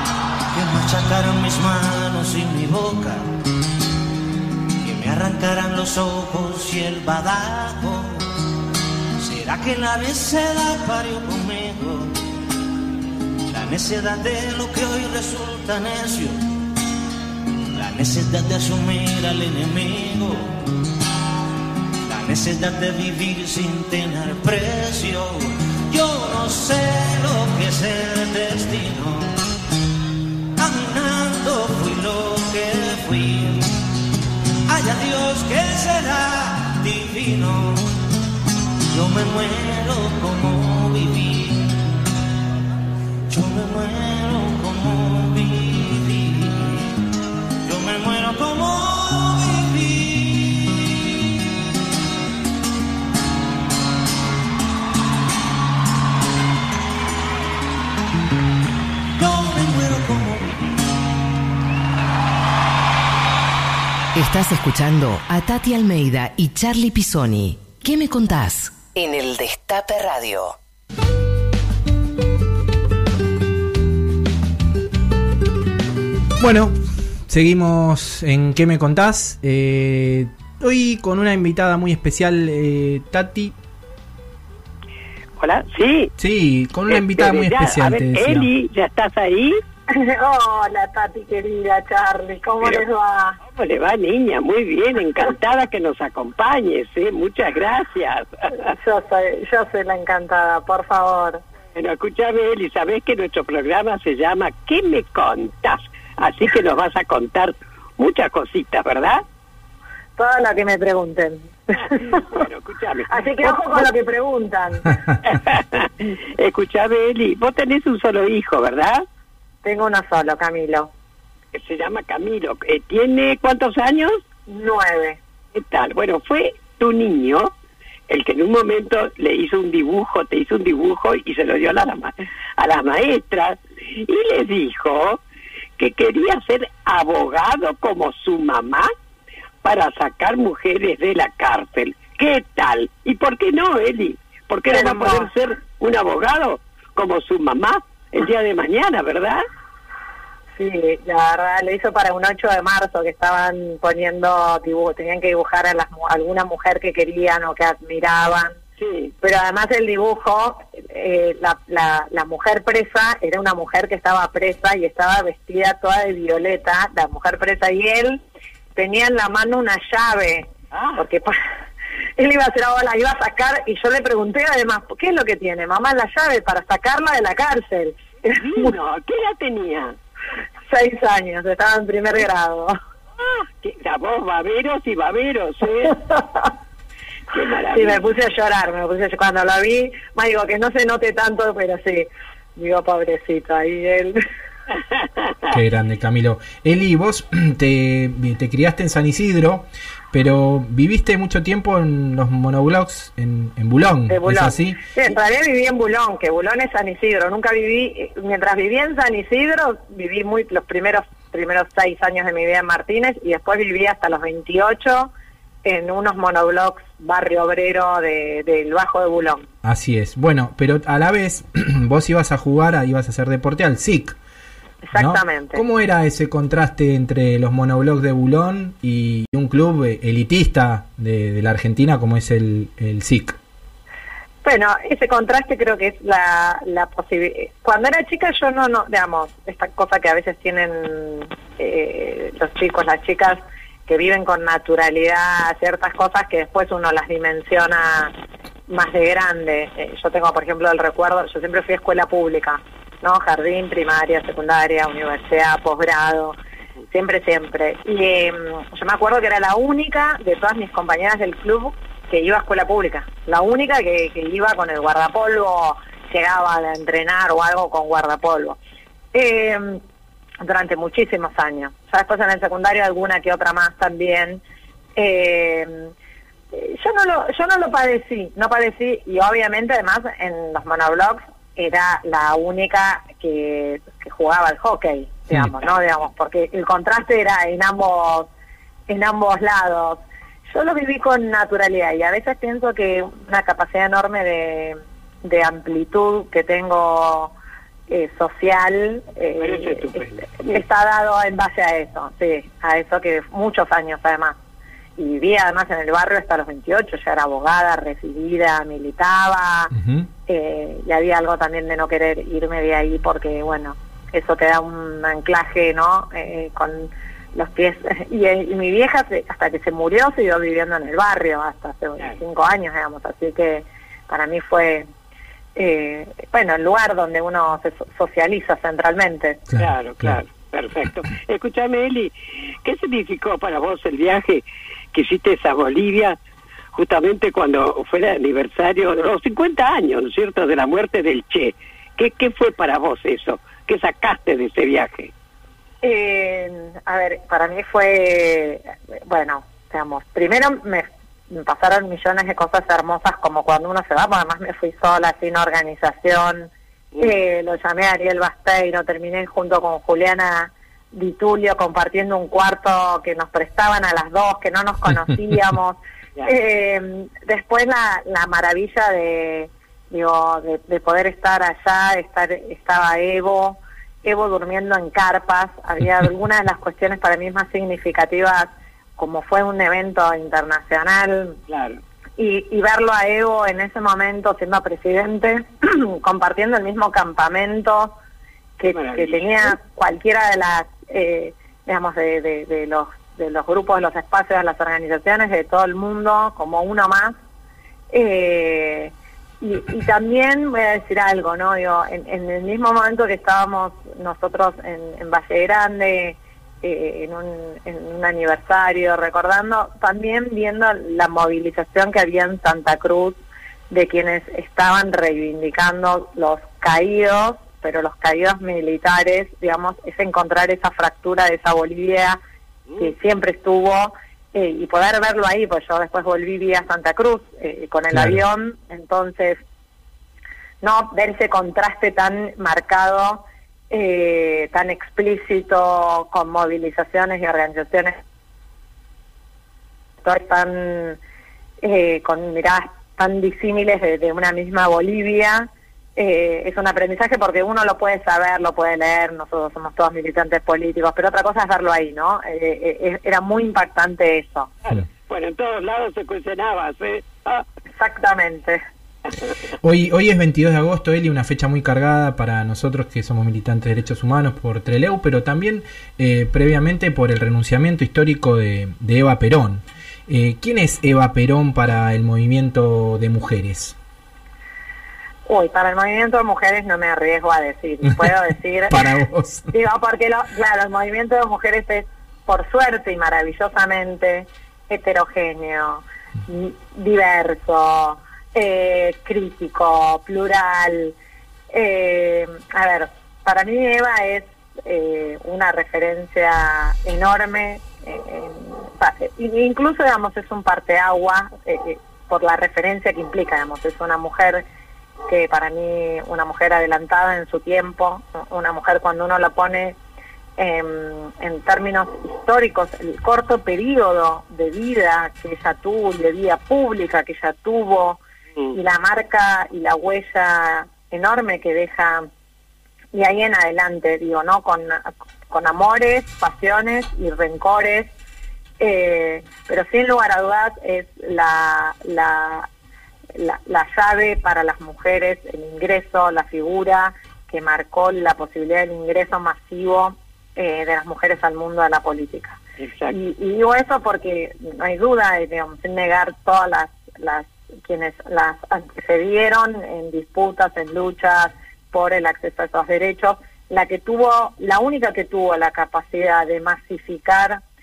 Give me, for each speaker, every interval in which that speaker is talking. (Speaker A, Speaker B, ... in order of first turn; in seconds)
Speaker A: 0.5-3.3, 4.8-8.3, 9.2-12.2, 13.5-16.4, 17.7-20.6, 22.1-29.4, 30.6-33.8, 34.7-37.9, 38.9-41.9, 43.3-46.9, 47.6-51.2, 59.2-60.9
Speaker B: 64.2-70.6
Speaker C: 76.4-76.8, 77.3-83.5, 86.2-88.5, 195.5-204.8, 219.6-224.2, 224.9-233.4, 309.7-310.1, 329.5-330.2, 427.9-428.2, 459.6-473.8, 478.7-479.5
Speaker D: 85.4-86.1, 86.9-89.6, 93.5-98.7, 101.8-109.2, 111.9-113.9, 115.2-119.0, 121.5-124.2, 125.5-127.5, 128.1-135.2, 135.8-138.9, 139.6-149.4, 158.8-159.1, 170.7-171.0, 178.4-180.0, 183.2-186.0, 187.3-188.1, 195.0-195.3, 299.4-300.6, 329.6-332.1, 332.6-336.2, 336.7-345.1, 381.5-381.8, 388.7-389.5, 454.6-457.4, 542.6-543.0
Speaker E: 89.9-93.4, 98.7-101.4, 110.2-112.4, 113.1-115.0, 119.6-120.9, 124.5-125.2, 144.7-145.3, 150.6-158.6, 159.2-168.2, 168.8-171.4, 172.2-178.8, 180.7-182.8, 185.9-186.5, 187.7-194.2, 204.1-215.1, 215.7-219.5, 224.9-225.6, 234.4-248.1, 248.7-256.4, 256.9-268.6, 269.1-269.8, 270.4-274.4, 275.0-275.9, 276.5-288.3, 288.9-297.3, 297.9-304.4, 305.0-309.7, 310.3-324.9, 325.6-329.4, 345.8-381.4, 382.2-387.9, 388.6-397.2, 397.9-413.2, 413.7-422.2, 422.8-429.4, 430.6-438.0, 440.0-441.0, 441.6-454.5, 457.8-458.6, 475.3-478.8, 479.5-491.0, 491.5-504.4, 505.1-509.8, 510.4-518.0, 518.5-522.1, 522.9-527.9, 528.6-532.5, 533.1-542.4, 542.9-557.4